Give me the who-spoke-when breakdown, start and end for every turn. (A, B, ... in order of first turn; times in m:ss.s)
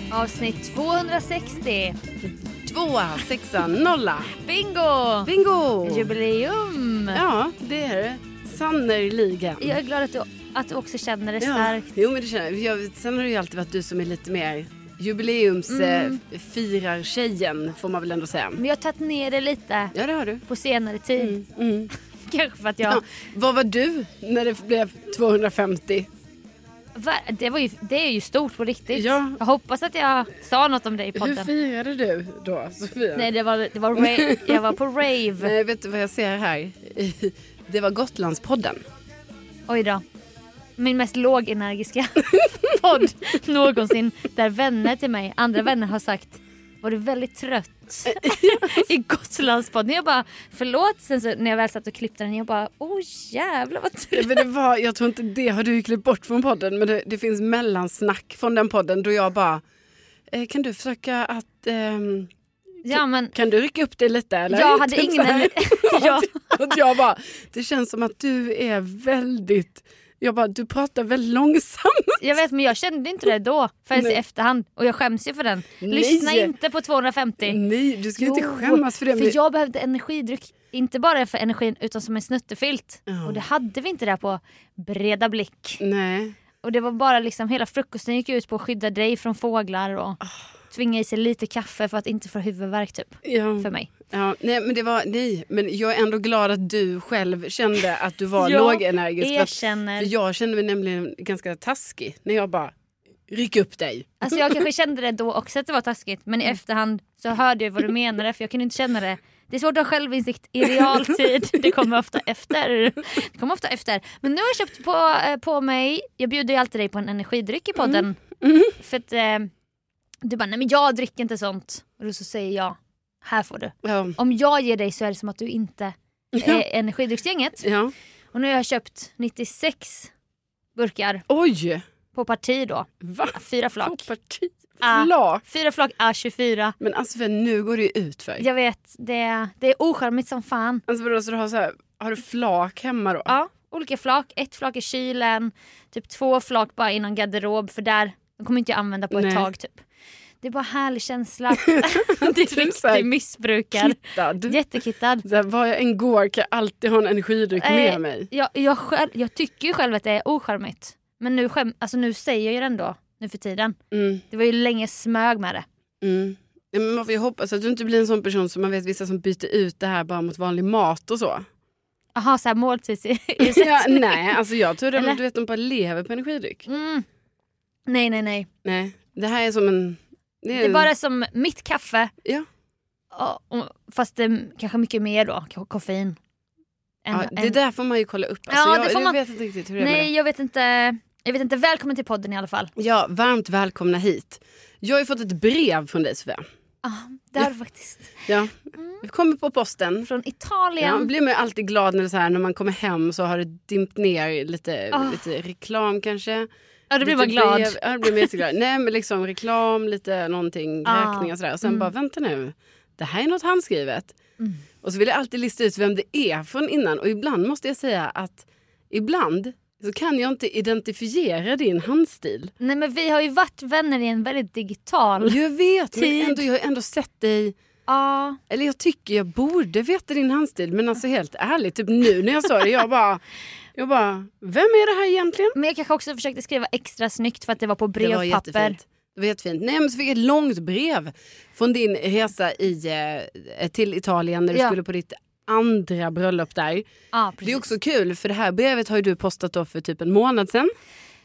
0:00.1-0:02.0 A
0:02.6-0:04.3 B
0:04.4-0:05.3 A
0:05.2-0:06.2 B
0:05.8-0:07.2 A
0:07.1-0:09.8 B
0:09.6-0:11.9 A
0:11.4-0:18.6 B
0:15.7-0:16.2 A
0:18.6-0:20.0 A
0:19.9-0:20.4 B
0:20.5-0:21.4 A
0:21.2-0:21.9 B
0:22.2-0:23.0 A
0:22.9-0:26.1 B
0:27.0-0:31.5 A
0:28.9-0:29.4 B
0:31.2-0:33.3 B
0:33.2-0:35.5 A
0:34.0-0:34.7 B
0:35.4-0:38.8 B
0:39.7-0:40.0 A
0:40.8-0:54.5 A
0:48.1-0:48.8 B
0:54.1-0:59.6 B
1:00.3-1:02.3 B
1:02.8-1:03.3 A
1:02.9-1:12.2 B
1:04.5-1:06.8 A
1:12.2-1:17.6 A
1:15.8-1:16.5 B
1:17.4-1:19.4 B
1:18.2-1:25.8 A
1:23.1-1:23.4 B
1:25.8-1:26.4 B
1:26.6-1:33.9 A
1:33.2-1:42.7 B
1:38.4-1:40.1 A
1:43.3-1:44.4 B
1:44.2-1:58.2 A
1:57.8-1:58.8 B
1:58.8-1:59.5 A
2:00.2-2:07.6 A
2:03.8-2:04.2 B
2:06.3-2:06.6 B
2:07.6-2:07.9 B
2:08.3-2:10.1 A
2:10.8-2:11.2 A
2:11.3-2:11.8 B
2:12.1-2:14.1 A
2:13.0-2:15.4 B
2:14.8-2:16.8 A
2:16.8-2:18.4 B
2:18.4-2:20.8 A
2:20.9-2:23.3 B
2:23.3-2:29.8 A
2:29.1-2:29.5 B
2:30.4-2:35.2 A
2:31.7-2:33.1 B
2:33.8-2:34.6 B
2:35.2-2:38.3 B
2:37.6-2:43.8 A
2:43.9-2:44.2 B
2:44.3-2:45.7 A
2:46.0-2:51.4 B
2:52.2-2:54.4 A
2:53.4-2:56.7 B
2:56.7-2:57.1 A
2:57.9-2:58.5 A
2:58.6-3:00.9 B
3:00.5-3:02.1 A
3:03.1-3:06.2 A
3:07.0-3:07.6 A
3:07.1-3:10.1 B
3:08.5-3:09.2 A
3:09.8-3:12.7 A
3:12.8-3:16.4 B
3:16.8-3:19.0 A
3:18.3-3:20.1 B
3:20.0-3:21.1 A
3:20.8-3:26.5 B
3:24.9-3:25.3 A
3:26.9-3:28.3 A
3:27.0-3:34.2 B
3:30.8-3:31.9 A
3:34.8-3:42.5 B
3:42.6-3:45.4 A
3:45.2-3:47.6 B
3:45.9-3:46.4 A
3:47.9-3:48.4 A
3:48.5-3:53.2 B
3:53.8-3:55.6 B
3:55.6-3:58.8 A
3:58.0-4:06.9 B
4:07.1-4:07.7 A
4:07.4-4:10.7 B